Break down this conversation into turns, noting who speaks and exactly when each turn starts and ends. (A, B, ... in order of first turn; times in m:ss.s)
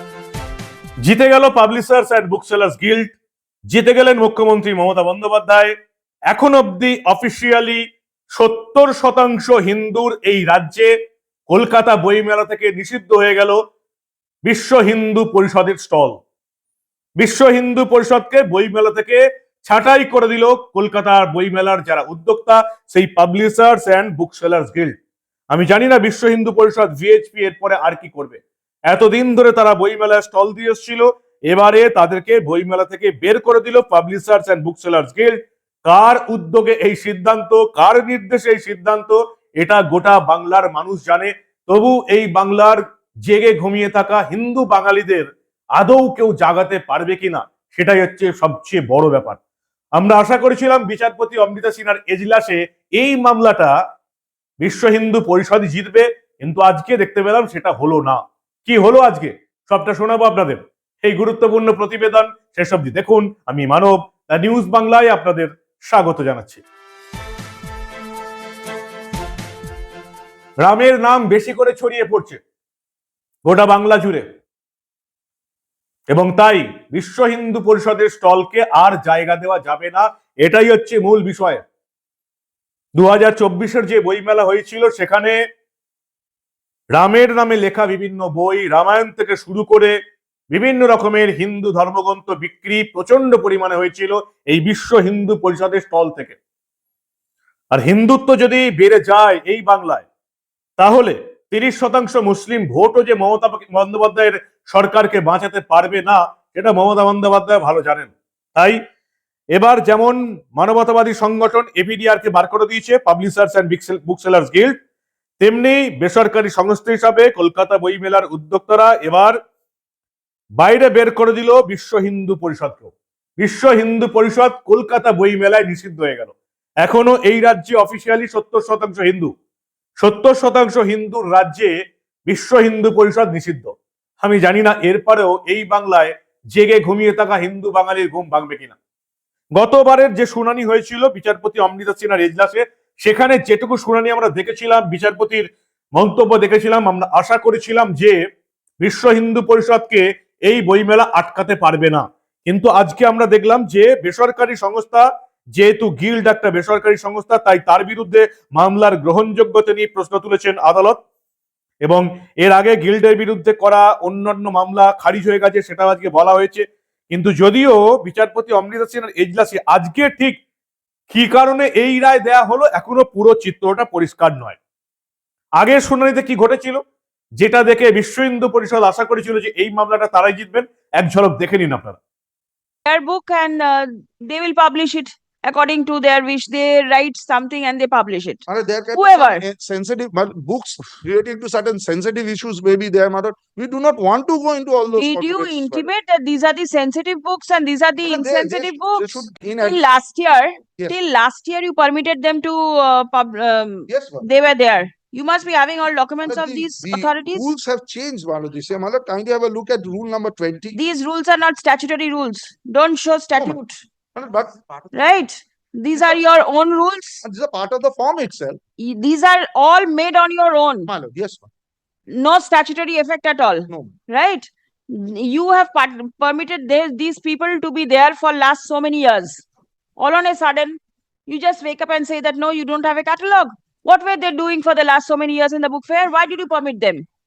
0:01.0-0:03.2 A
0:03.7-0:05.7 A
0:06.3-0:10.9 A
0:11.5-0:13.6 A
0:14.4-0:16.2 A
0:17.2-0:25.0 A
0:25.5-0:49.4 A
0:50.0-0:53.7 A
0:54.6-1:06.6 A
1:10.6-1:12.4 A
1:13.4-1:14.2 A
1:16.1-1:21.6 A
1:22.9-1:25.4 A
1:26.9-1:30.0 A
1:30.5-1:36.4 A
1:37.7-1:40.0 A
1:40.8-1:48.8 A
1:49.5-1:54.8 A
1:55.4-1:59.4 A
2:00.6-2:09.3 A
2:10.0-2:11.7 A
2:12.3-2:18.8 A
2:19.6-2:28.2 A
2:28.8-2:35.0 A
2:35.6-2:41.0 A
2:41.8-2:50.4 A
2:51.1-2:54.6 A
2:55.6-2:56.8 A
2:57.4-3:02.0 A
3:02.8-3:09.4 B
3:08.5-3:15.9 C
3:15.0-3:27.5 B
3:18.0-3:19.8 C
3:23.9-3:24.2 C
3:26.3-3:30.8 C
3:30.8-3:33.8 B
3:34.2-3:35.0 C
3:34.9-3:37.2 B
3:35.9-3:36.2 C
3:37.2-3:38.6 C
3:38.8-3:40.9 B
3:40.9-3:41.5 C
3:42.1-3:49.4 B
3:50.0-3:57.1 B